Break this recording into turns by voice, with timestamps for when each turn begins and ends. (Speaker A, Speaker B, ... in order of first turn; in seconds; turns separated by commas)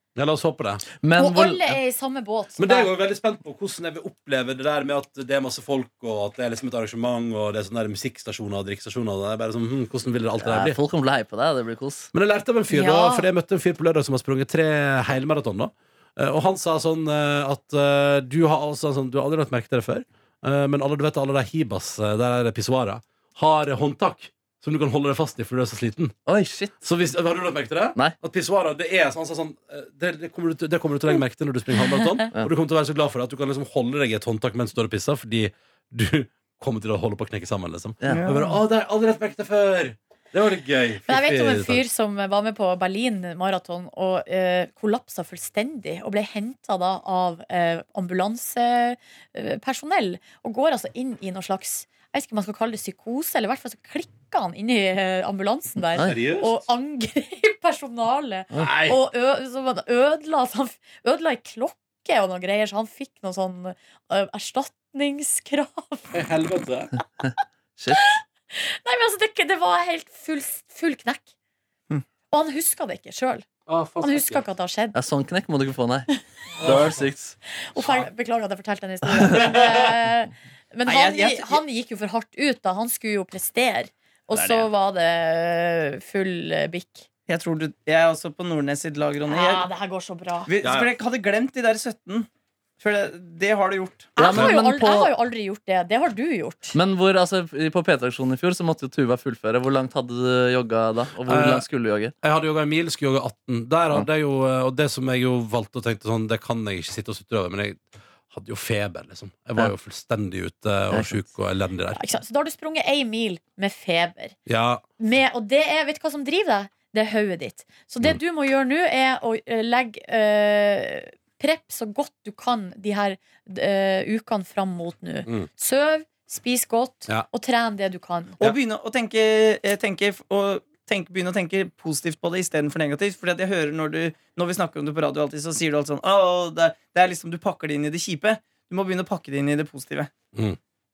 Speaker A: 0.1-0.8, Speaker B: 1.0-1.8, Speaker C: 1.1-2.9, Speaker A: 2.6-10.8, Speaker B: 10.3-12.1, Speaker A: 12.1-26.1, Speaker C: 12.7-13.3, Speaker B: 26.2-26.8, Speaker A: 26.8-41.8, Speaker D: 38.1-38.6, Speaker C: 41.0-66.3, Speaker A: 56.0-56.6, Speaker A: 58.5-59.0, Speaker A: 66.1-66.9, Speaker C: 67.9-71.2, Speaker C: 72.3-73.5, Speaker A: 73.7-74.5, Speaker C: 74.0-75.0, Speaker B: 74.9-76.1, Speaker A: 76.6-77.0, Speaker B: 76.6-77.3, Speaker C: 77.6-87.0, Speaker D: 80.8-81.6, Speaker D: 84.3-84.7, Speaker D: 87.3-89.7, Speaker C: 89.3-90.5, Speaker D: 90.5-92.3, Speaker A: 90.6-90.9, Speaker D: 92.8-94.1, Speaker B: 94.2-95.1, Speaker C: 94.2-96.8, Speaker B: 96.7-102.1, Speaker A: 101.2-101.7, Speaker A: 102.2-112.0, Speaker B: 110.9-111.2, Speaker C: 111.9-114.3, Speaker A: 114.5-114.8, Speaker C: 115.0-128.4, Speaker D: 128.4-140.1